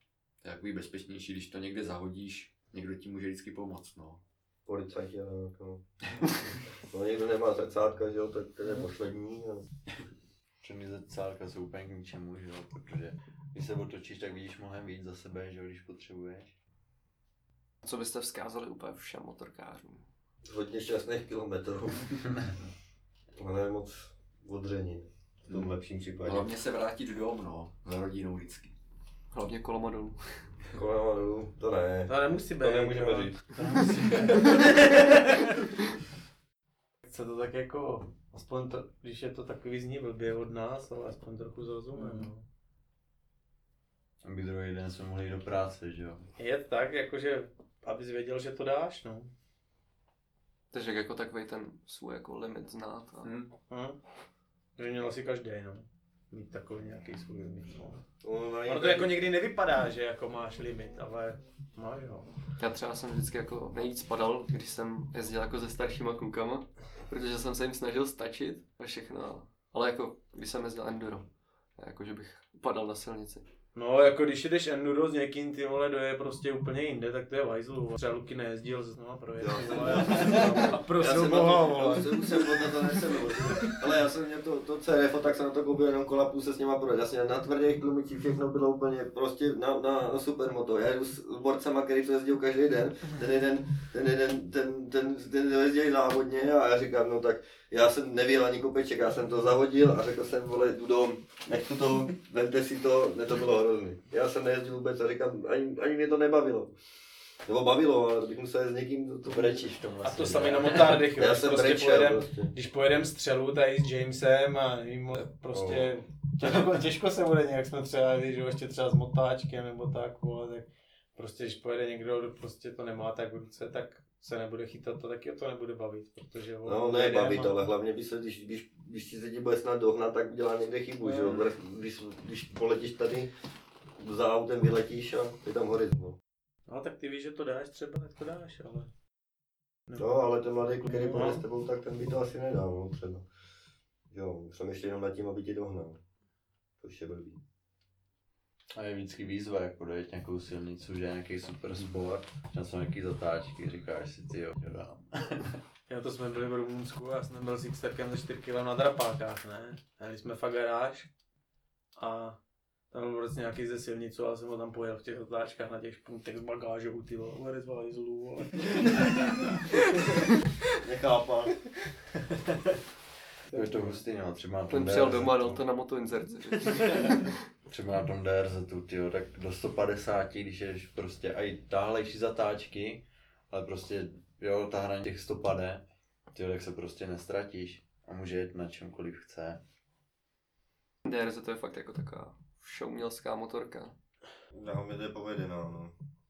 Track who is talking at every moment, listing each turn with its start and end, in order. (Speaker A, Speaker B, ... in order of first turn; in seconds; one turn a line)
Speaker A: 0.4-4.2
Speaker B: 4.7-5.8
Speaker B: 6.9-9.7
Speaker C: 10.6-16.5
Speaker D: 17.8-20.1
Speaker B: 20.5-22.4
Speaker B: 23.4-26.5
Speaker A: 26.2-28.7
Speaker D: 29.3-30.2
Speaker B: 30.7-33.5
Speaker E: 32.1-35.5
Speaker C: 33.7-34.4
Speaker E: 37.0-42.4
Speaker C: 44.2-46.3
Speaker E: 46.4-49.3
Speaker D: 50.7-53.3
Speaker A: 53.2-53.5
Speaker E: 53.7-54.0
Speaker E: 54.8-58.0
Speaker B: 58.2-59.1
Speaker E: 58.6-62.3
Speaker D: 62.6-73.4
Speaker E: 73.7-82.9
Speaker B: 79.4-106.7
Speaker B: 107.5-109.7
Speaker C: 109.2-111.1
Speaker E: 110.0-127.6
Speaker B: 111.2-112.5
Speaker C: 115.5-115.9
Speaker B: 126.6-133.3
Speaker E: 131.0-131.4
Speaker B: 134.0-136.2
Speaker E: 136.7-138.9
Speaker B: 140.0-143.2
Speaker E: 140.8-141.4
Speaker B: 144.1-146.0
Speaker B: 146.8-147.4
Speaker C: 148.7-155.6
Speaker E: 155.9-161.1
Speaker E: 161.9-162.4
Speaker E: 162.9-169.6
Speaker B: 170.8-171.6
Speaker E: 173.5-174.0
Speaker C: 173.5-175.6
Speaker D: 174.7-177.3
Speaker C: 177.7-189.6
Speaker D: 191.0-193.9
Speaker B: 194.5-195.9